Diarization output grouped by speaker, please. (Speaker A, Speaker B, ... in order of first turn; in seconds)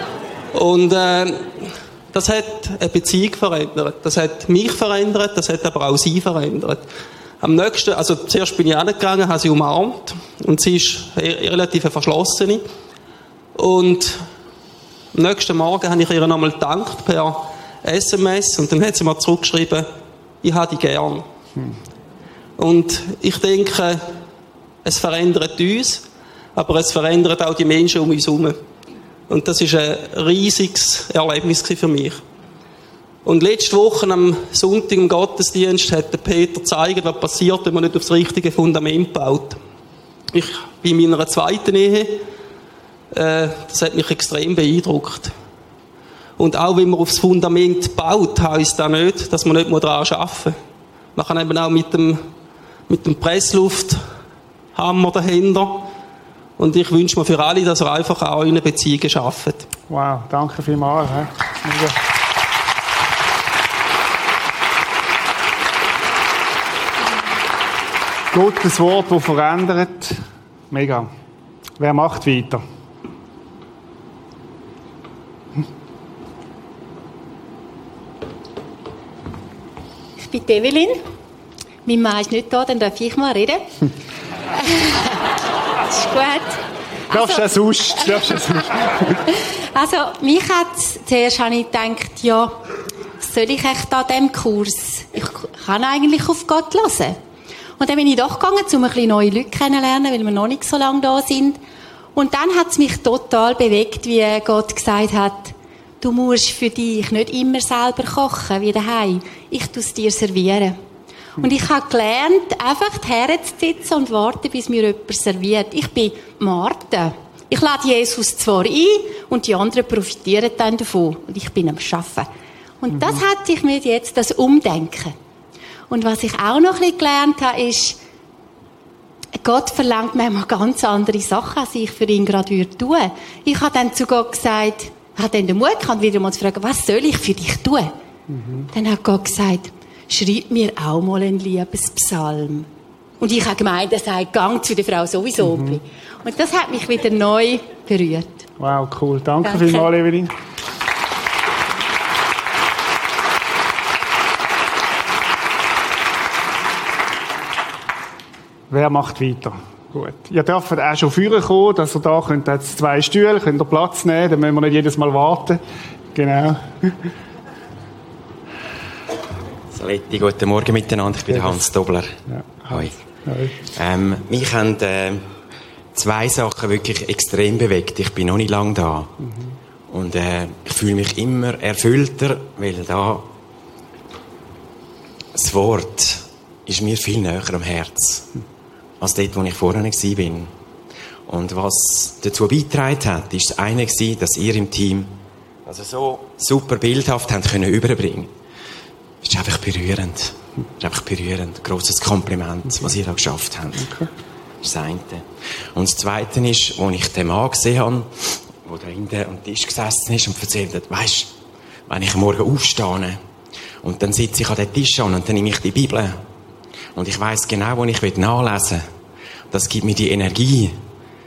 Speaker A: 0.5-6.8, 7.4-12.6, 13.5-14.3, 15.1-19.9, 20.4-21.2, 22.6-24.0, 24.8-28.6, 29.3-32.2, 33.2-39.6, 40.3-42.2, 43.1-45.3, 46.4-50.6, 51.1-52.3, 52.9-54.0, 54.7-55.9, 56.6-59.7
Speaker B: 59.9-62.0, 68.3-70.2, 70.7-71.1, 71.8-72.6, 87.1-89.1, 138.3-138.7, 145.4-145.8, 148.6-150.3, 158.7-165.6, 166.1-167.0, 171.3-171.6, 172.3-173.6, 179.2-179.5, 203.8-204.1
Speaker C: 80.2-81.0, 81.8-83.6, 84.6-85.2, 85.9-86.6, 87.1-87.5, 89.7-92.6, 93.2-97.2, 97.8-101.6, 102.1-110.8, 111.4-122.3, 122.8-125.2, 125.9-128.0, 129.4-137.9, 138.7-142.7, 143.2-148.4, 149.4-149.8
Speaker D: 169.7-172.2, 173.7-175.3, 175.9-179.1, 179.9-183.3, 185.3-188.3, 189.0-190.5, 191.3-198.3, 199.2-203.9, 204.6-211.3, 211.9-213.2, 213.8-216.2, 216.9-218.9, 219.5-220.8